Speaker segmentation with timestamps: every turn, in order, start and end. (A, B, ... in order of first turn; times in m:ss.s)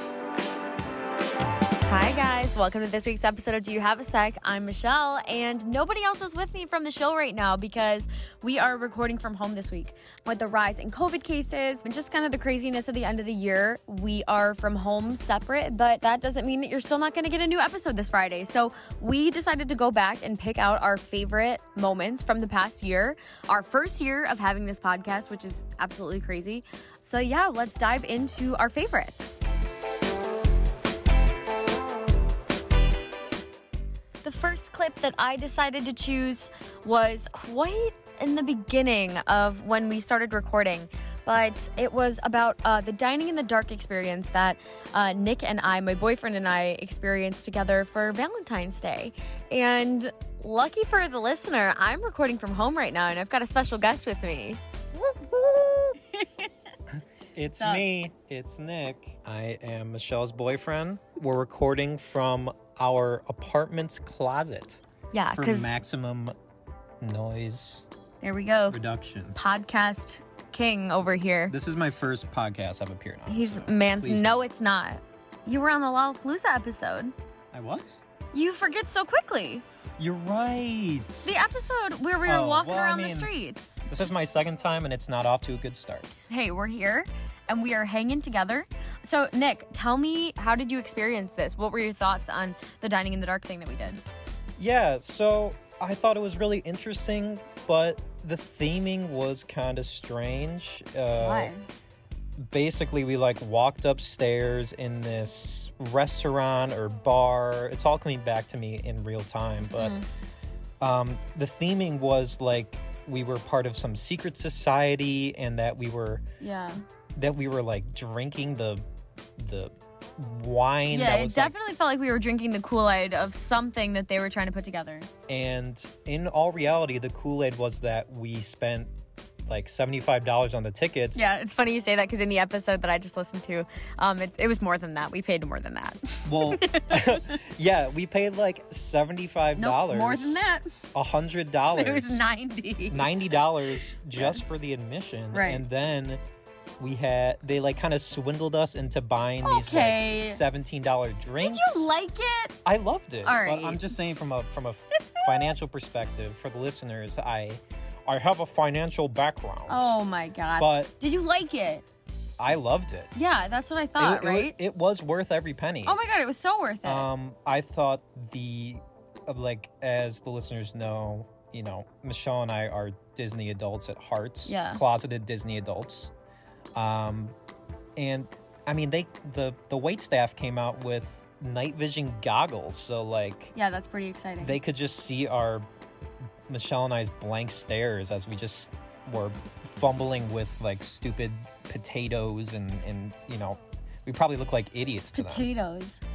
0:01.8-0:29.4 A
0:34.2-0:54.6 A
0:54.9-0:56.0 B
0:57.0-1:04.8 B
0:57.6-0:57.9 A
1:05.1-1:05.8 A
1:05.3-1:06.4 B
1:07.0-1:07.8 B
1:08.2-1:08.8 A
1:08.7-1:09.4 B
1:09.3-1:11.5 A
1:11.5-1:14.5 B
1:13.3-1:17.1 A
1:17.5-1:18.0 B
1:18.3-1:19.6 A
1:20.0-1:21.3 B
1:21.2-1:23.8 A
1:22.2-1:23.3 B
1:23.9-1:26.1 B
1:26.3-1:34.0 A
1:34.6-1:41.5 B
1:41.2-1:41.6 A
1:42.4-1:50.0 B
1:49.8-1:50.0 A
1:50.8-1:56.2 B
1:56.4-1:56.8 A
1:57.1-1:58.8 B
1:59.4-2:01.5 B
2:00.9-2:05.1 A
2:05.3-2:08.9 B
2:09.4-2:11.2 B
2:11.1-2:17.2 A
2:16.2-2:20.4 B
2:19.6-2:20.7 A
2:20.9-2:22.3 B
2:21.7-2:23.1 A
2:22.9-2:26.2 B
2:24.2-2:24.4 A
2:25.3-2:25.6 A
2:26.8-2:31.9 B
2:29.4-2:30.4 A
2:31.4-2:32.6 A
2:32.6-2:39.9 B
2:33.2-2:33.9 A
2:35.2-2:35.4 A
2:39.7-2:41.8 A
2:40.6-2:40.9 B
2:42.4-2:43.1 B
2:43.1-2:44.5 A
2:44.0-2:46.0 B
2:45.8-2:47.1 A
2:46.8-2:56.1 B
2:54.4-2:54.8 A
2:56.7-2:57.3 B
2:58.0-3:03.5 B
3:03.5-3:04.6 A
3:04.4-3:05.7 B
3:06.5-3:15.5 B
3:15.1-3:16.0 A